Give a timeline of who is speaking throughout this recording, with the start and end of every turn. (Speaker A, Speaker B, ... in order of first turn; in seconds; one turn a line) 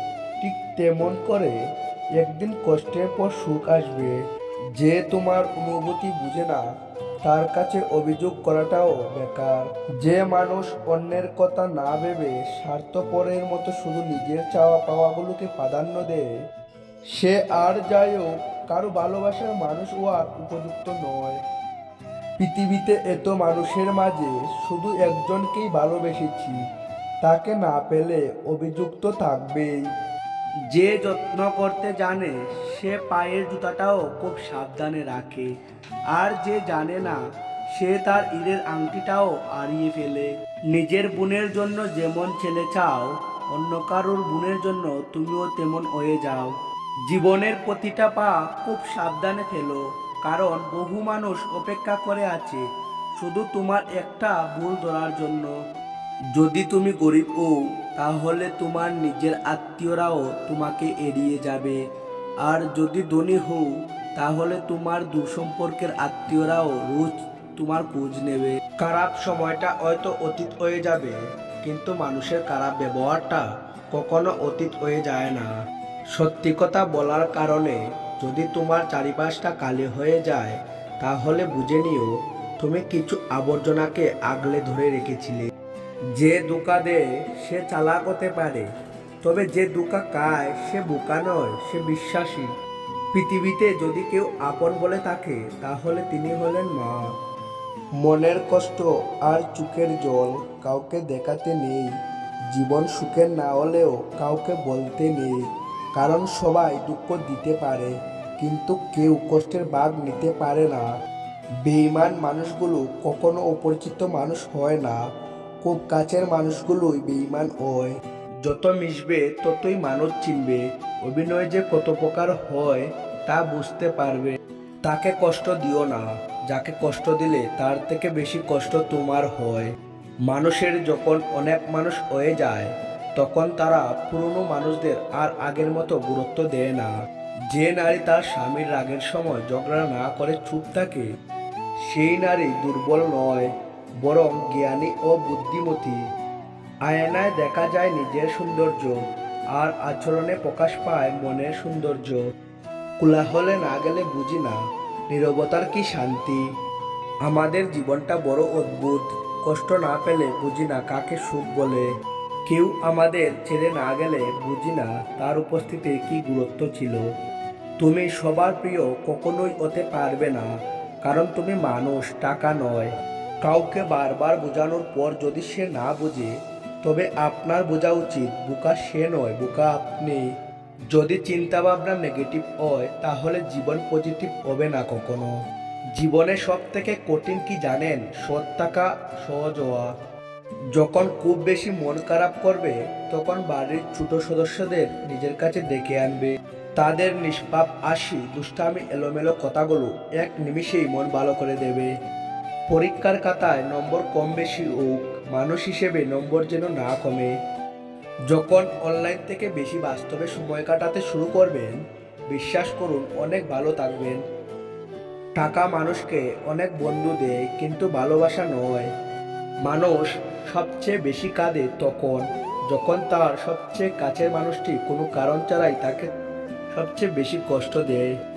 Speaker A: 0.4-1.6
Speaker A: 2.2-4.2
Speaker A: 4.8-6.6
Speaker A: 7.2-16.2
Speaker A: 17.1-21.4
Speaker A: 22.4-26.6
Speaker A: 27.2-29.8
Speaker A: 30.7-35.5
Speaker A: 36.1-37.2
Speaker A: 37.8-46.5
Speaker A: 47.1-52.6
Speaker A: 53.2-55.5
Speaker A: 56.3-61.8
Speaker A: 62.4-75.5
Speaker A: 76.1-85.5
Speaker A: 86.2-88.7
Speaker A: 89.2-92.5
Speaker A: 93.1-96.9
Speaker A: 98.0-101.9
Speaker A: 102.5-105.4
Speaker A: 105.9-110.8
Speaker A: 111.6-115.0
Speaker A: 115.6-117.9
Speaker A: 118.4-129.7
Speaker A: 130.3-136.9
Speaker A: 137.5-141.0
Speaker A: 141.9-143.5
Speaker A: 144.0-146.0
Speaker A: 146.8-148.9
Speaker A: 149.5-152.2
Speaker A: 153.0-154.6
Speaker A: 155.1-156.4
Speaker A: 157.2-161.9
Speaker A: 162.5-167.0
Speaker A: 167.8-170.5
Speaker A: 171.0-172.9
Speaker A: 173.4-176.3
Speaker A: 176.8-180.2
Speaker A: 180.9-185.3
Speaker A: 185.9-189.9
Speaker A: 190.7-201.9
Speaker A: 202.7-207.3
Speaker A: 208.3-211.8
Speaker A: 212.3-214.2
Speaker A: 215.4-218.9
Speaker A: 219.6-226.1
Speaker A: 226.7-228.1